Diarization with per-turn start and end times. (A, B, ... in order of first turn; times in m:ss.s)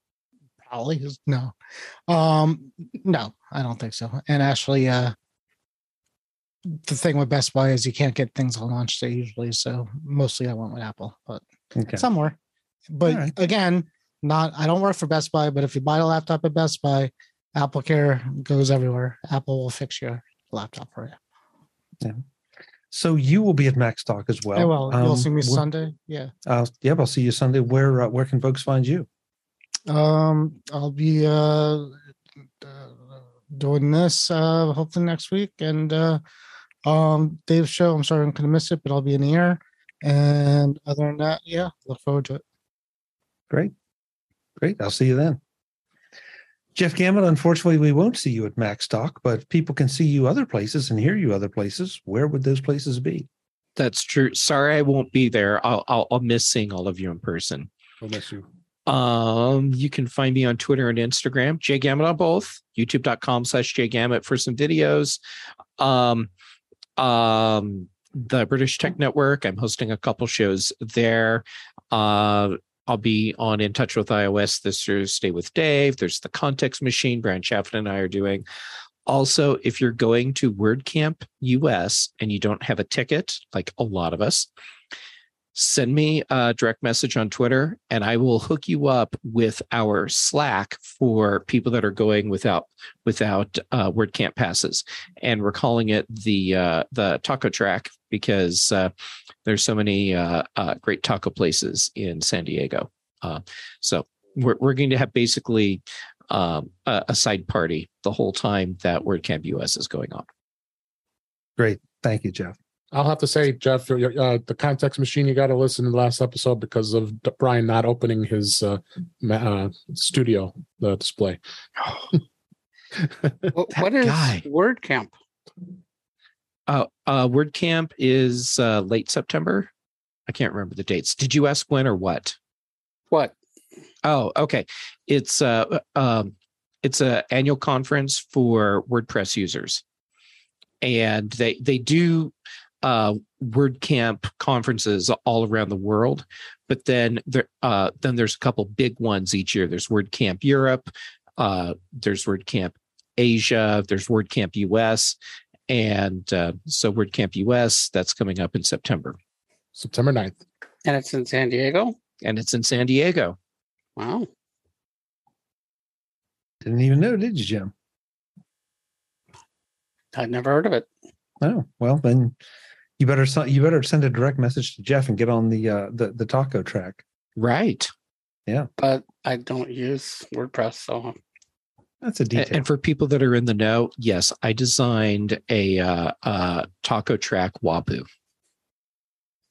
0:00.6-0:01.5 A
0:02.1-0:05.1 A
0:06.7-0:11.4 A
0:11.8-0:12.0 B
0:11.9-0:12.4 A
0:12.9-0:21.2 A
0:13.0-0:13.3 B
0:22.9-0:25.6 B
0:24.6-0:26.3 A
0:26.4-0:29.1 B
0:29.9-0:31.9 A
0:32.6-0:36.2 A
0:36.8-0:42.4 A
0:44.6-0:45.4 B
0:46.7-0:53.3 B
0:53.8-0:57.7 C
0:58.0-0:58.5 D
0:58.9-1:05.2 C
1:05.8-1:06.3 C
1:07.0-1:18.4 C
1:19.1-1:24.5 C
1:25.5-1:38.9 C
1:39.4-1:50.3 C
1:51.6-1:52.5 B
1:52.9-2:01.4 D
2:03.5-2:05.1 E
2:03.7-2:04.4 C
2:06.7-2:09.7 C
2:10.3-2:12.4 C
2:13.1-2:13.4 E
2:14.0-2:19.8 C
2:20.8-2:35.2 C
2:35.7-2:39.2 C
2:39.8-2:40.4 D
2:40.8-2:42.0 E
2:42.2-2:43.4 C
2:44.0-2:44.3 E
2:46.6-2:47.7 B
2:50.1-2:50.9 E
2:51.4-2:52.3 B
2:53.0-2:57.0 B
2:57.4-2:57.9 C
2:58.8-3:01.2 E
3:02.0-3:02.6 B
3:02.3-3:08.1 C